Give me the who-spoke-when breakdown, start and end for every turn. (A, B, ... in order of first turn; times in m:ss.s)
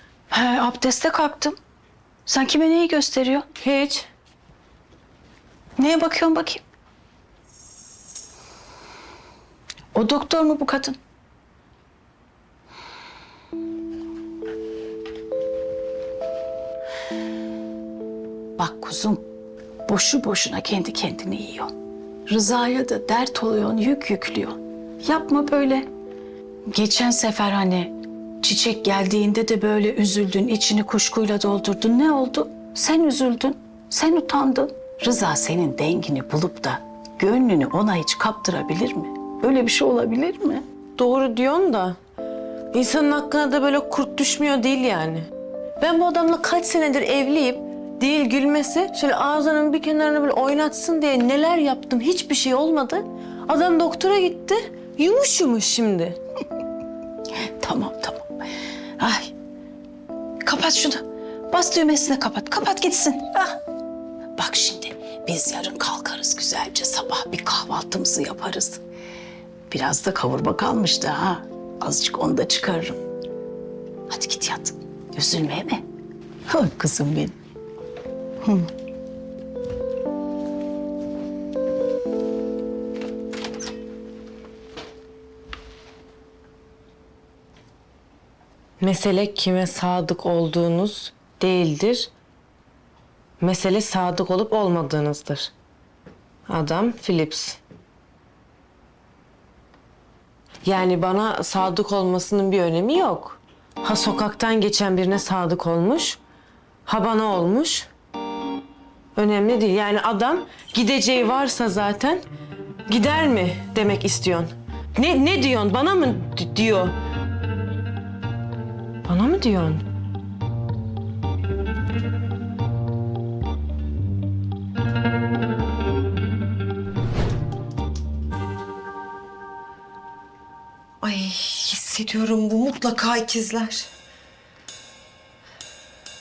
0:00.3-0:01.6 A
0:02.2-0:03.4 A
0:03.6-0:04.1 B
0:05.8-0:06.6 A
0:09.9-0:11.0 A
0:18.6-0:19.2 A
0:19.9-0:21.7 A
0:22.3-0:25.9 A
0:26.7-0:40.6 A
0:41.0-0:42.0 B
0:42.7-0:45.3 B
0:45.8-0:56.2 B
0:57.4-0:58.3 A
0:59.0-0:59.3 A
1:00.4-1:03.6 A
1:04.4-1:08.8 A
1:09.7-1:13.0 A
1:14.1-1:15.8 A
1:16.5-1:17.4 A
1:18.4-1:18.7 A
1:28.8-1:32.1 B
1:33.4-1:35.5 B
1:36.5-1:37.6 B
1:40.6-1:46.2 B
1:46.9-1:47.9 B
1:49.1-1:52.2 B
1:52.9-1:57.0 B
1:59.1-1:59.8 B
2:11.0-2:13.9 C